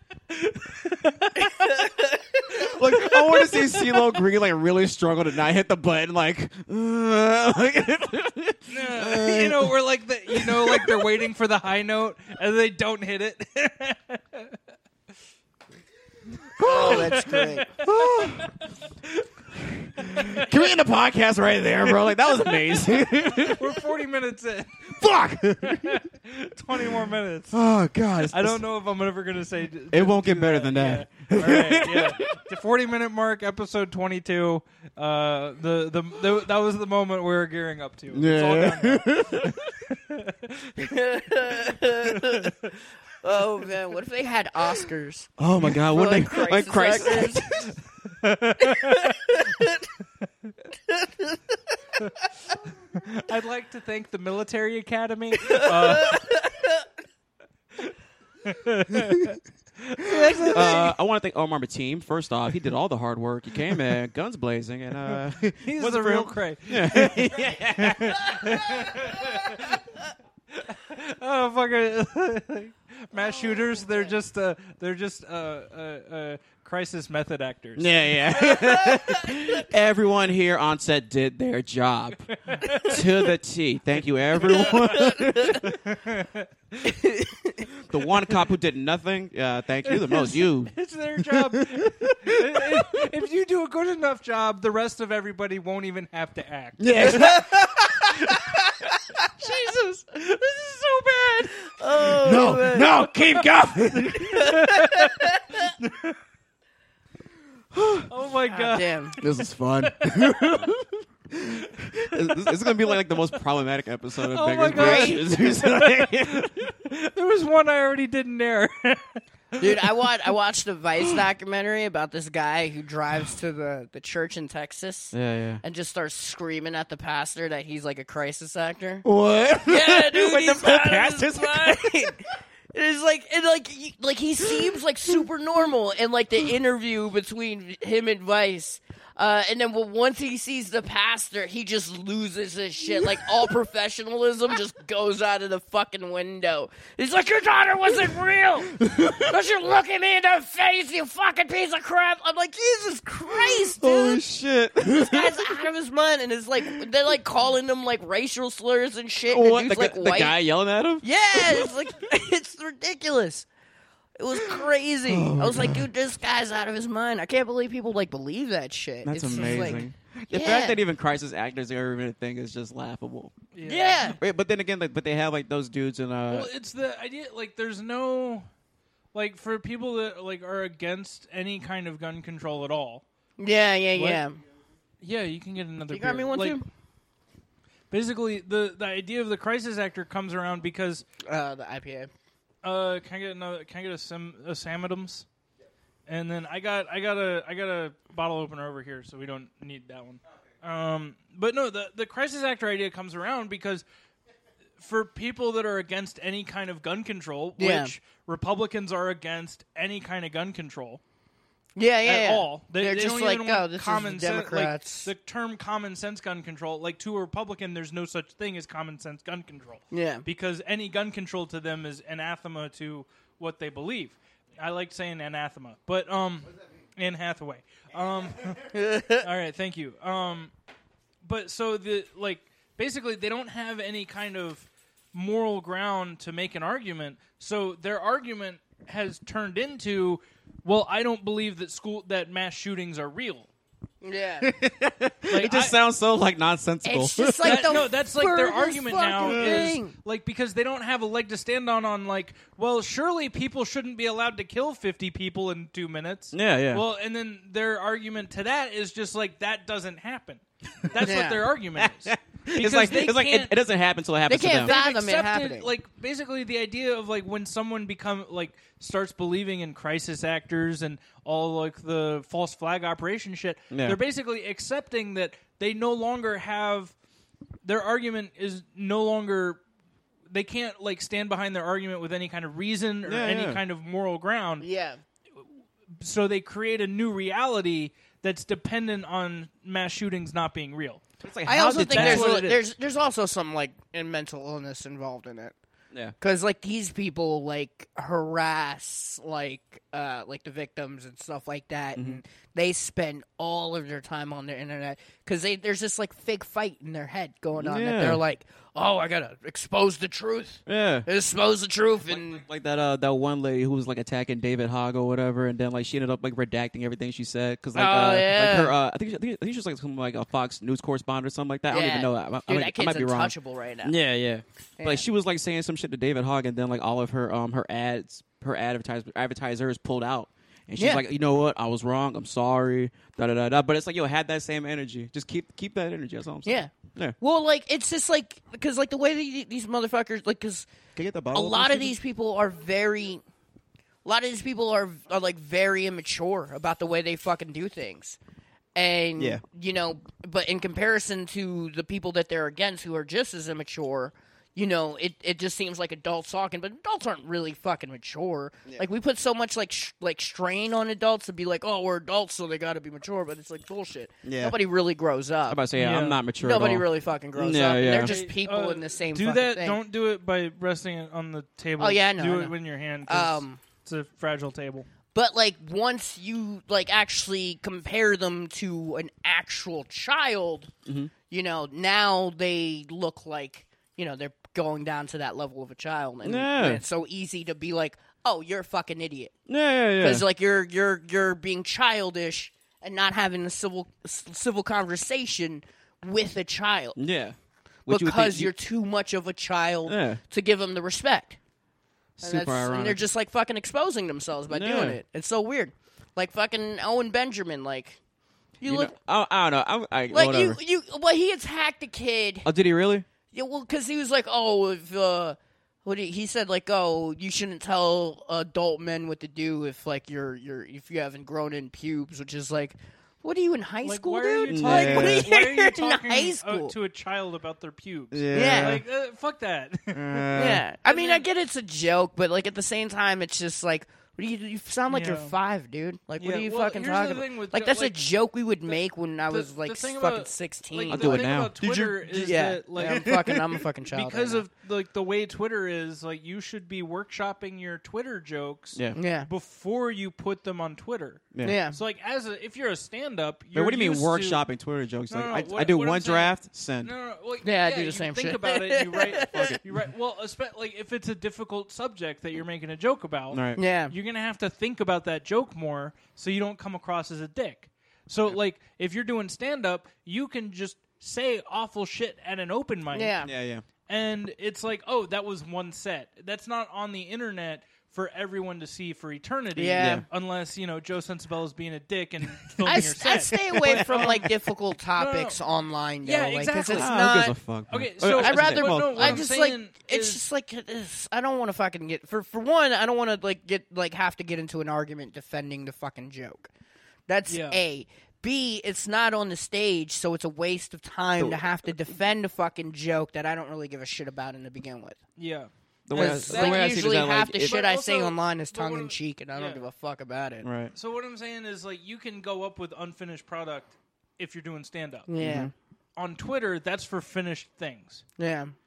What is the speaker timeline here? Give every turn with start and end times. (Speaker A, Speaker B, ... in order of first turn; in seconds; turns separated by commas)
Speaker A: 0.3-1.7, Speaker B: 1.3-2.8, Speaker C: 2.6-9.7, Speaker A: 3.2-3.6, Speaker A: 8.7-14.6, Speaker C: 10.3-11.2, Speaker C: 16.6-17.2, Speaker B: 16.6-17.7, Speaker A: 16.6-18.6, Speaker C: 17.8-18.5, Speaker C: 19.5-23.8, Speaker A: 20.0-20.5, Speaker A: 22.2-25.0, Speaker C: 25.0-26.0, Speaker A: 25.6-27.6, Speaker C: 27.5-28.6, Speaker A: 28.3-40.8, Speaker C: 29.9-32.4, Speaker C: 38.1-39.7, Speaker B: 40.8-42.5, Speaker A: 42.1-42.5, Speaker B: 43.2-47.5, Speaker C: 45.4-47.7, Speaker A: 48.1-49.4, Speaker B: 48.7-49.9, Speaker B: 50.9-51.6, Speaker A: 52.9-56.4, Speaker B: 55.5-56.8, Speaker A: 58.4-61.0, Speaker C: 60.5-69.1, Speaker A: 65.1-70.0, Speaker A: 70.5-78.0, Speaker B: 73.7-74.1, Speaker C: 77.8-85.7, Speaker A: 82.3-83.1, Speaker A: 84.4-86.9, Speaker B: 84.9-85.6, Speaker B: 86.9-87.7, Speaker C: 87.8-92.8, Speaker A: 89.8-97.4, Speaker C: 96.8-98.5, Speaker B: 97.0-97.5, Speaker A: 99.4-101.7, Speaker B: 101.7-103.0, Speaker C: 102.0-104.6, Speaker A: 103.9-106.2, Speaker B: 104.2-105.7, Speaker C: 107.7-108.1, Speaker A: 108.1-110.7, Speaker B: 108.5-109.2, Speaker C: 109.2-116.5, Speaker A: 111.8-113.4, Speaker A: 114.3-119.6, Speaker B: 114.7-115.2, Speaker B: 119.6-129.0, Speaker C: 125.1-125.6, Speaker C: 129.0-132.1, Speaker B: 129.6-154.2, Speaker C: 148.7-149.3, Speaker C: 153.3-155.6, Speaker B: 154.8-160.4, Speaker C: 159.3-161.7, Speaker B: 161.0-163.5, Speaker B: 164.2-170.8, Speaker C: 164.6-165.9, Speaker C: 169.0-173.3, Speaker A: 169.4-169.8, Speaker A: 173.5-174.2, Speaker B: 173.6-174.2, Speaker C: 174.2-176.5, Speaker A: 176.3-178.4, Speaker A: 179.1-183.0, Speaker B: 183.4-184.4, Speaker A: 183.9-184.2, Speaker A: 185.0-186.6, Speaker B: 185.9-186.7, Speaker A: 187.9-191.0, Speaker B: 191.2-192.1, Speaker A: 192.6-195.2, Speaker A: 196.1-203.8, Speaker A: 204.8-211.0, Speaker B: 207.6-207.9, Speaker B: 211.8-215.1, Speaker A: 212.0-230.5, Speaker B: 219.9-220.2, Speaker B: 228.7-229.3, Speaker A: 231.2-243.5, Speaker B: 244.0-244.5, Speaker C: 244.4-247.9, Speaker A: 245.3-245.8, Speaker B: 246.8-249.9, Speaker A: 247.4-263.6, Speaker C: 249.2-249.7, Speaker C: 256.3-256.8, Speaker B: 261.0-261.4, Speaker C: 261.8-264.7, Speaker B: 264.3-265.7, Speaker A: 264.6-276.9, Speaker C: 273.7-274.0, Speaker A: 277.6-279.6, Speaker A: 280.3-284.6, Speaker C: 283.0-283.6, Speaker B: 284.6-285.0, Speaker A: 286.0-292.6, Speaker C: 291.2-292.3, Speaker B: 291.5-295.5, Speaker B: 296.2-312.4, Speaker C: 301.9-302.2, Speaker C: 307.6-308.2, Speaker C: 310.7-311.1, Speaker C: 312.1-323.3, Speaker B: 317.7-318.7, Speaker B: 321.7-323.9, Speaker C: 323.8-337.1, Speaker B: 324.8-325.0, Speaker B: 330.8-331.0, Speaker B: 336.4-340.7, Speaker C: 340.9-341.9, Speaker B: 341.3-343.2, Speaker B: 344.0-348.2, Speaker B: 348.7-365.6, Speaker C: 349.2-349.4, Speaker C: 364.2-364.6, Speaker C: 365.5-368.2, Speaker A: 365.8-366.2, Speaker B: 366.4-369.8, Speaker A: 367.8-374.9, Speaker B: 371.8-372.5, Speaker B: 373.1-373.6, Speaker B: 375.1-380.7, Speaker C: 380.9-381.1, Speaker B: 381.3-389.3, Speaker C: 386.2-386.8, Speaker C: 389.5-390.2, Speaker B: 390.0-397.0, Speaker C: 396.9-397.4, Speaker C: 397.9-398.5, Speaker B: 397.9-401.4, Speaker C: 399.9-400.2, Speaker C: 402.2-403.0, Speaker B: 402.2-408.0, Speaker C: 404.5-405.0, Speaker B: 408.6-408.9, Speaker C: 408.6-410.6, Speaker B: 410.1-412.5, Speaker C: 412.4-413.1, Speaker B: 413.3-426.7, Speaker A: 423.8-431.2, Speaker C: 424.5-425.3, Speaker C: 428.1-428.8, Speaker B: 428.3-428.8, Speaker C: 429.9-430.6, Speaker B: 430.3-441.3, Speaker A: 434.9-435.3, Speaker A: 436.2-438.1, Speaker A: 439.3-443.2, Speaker C: 440.9-443.4, Speaker B: 442.1-444.4, Speaker A: 443.9-454.4, Speaker B: 448.9-449.3, Speaker B: 451.4-451.8, Speaker C: 453.5-456.9, Speaker A: 455.1-473.1, Speaker B: 457.4-459.5, Speaker C: 459.3-459.6, Speaker C: 463.3-463.6, Speaker B: 463.6-463.9, Speaker B: 472.9-473.3, Speaker C: 473.2-473.6, Speaker A: 473.9-484.3, Speaker B: 479.5-480.0, Speaker C: 479.8-480.0, Speaker B: 482.6-487.3, Speaker A: 484.9-485.4, Speaker A: 486.0-487.0, Speaker C: 486.7-489.3, Speaker A: 487.7-490.2, Speaker B: 488.1-496.5, Speaker B: 497.1-505.0, Speaker A: 497.3-497.6, Speaker C: 501.2-501.4, Speaker A: 505.2-509.6, Speaker C: 505.9-507.6, Speaker B: 505.9-510.5, Speaker C: 510.4-510.7, Speaker A: 510.7-515.3, Speaker B: 515.1-515.5, Speaker C: 515.2-515.5, Speaker A: 516.0-518.0, Speaker B: 518.2-518.5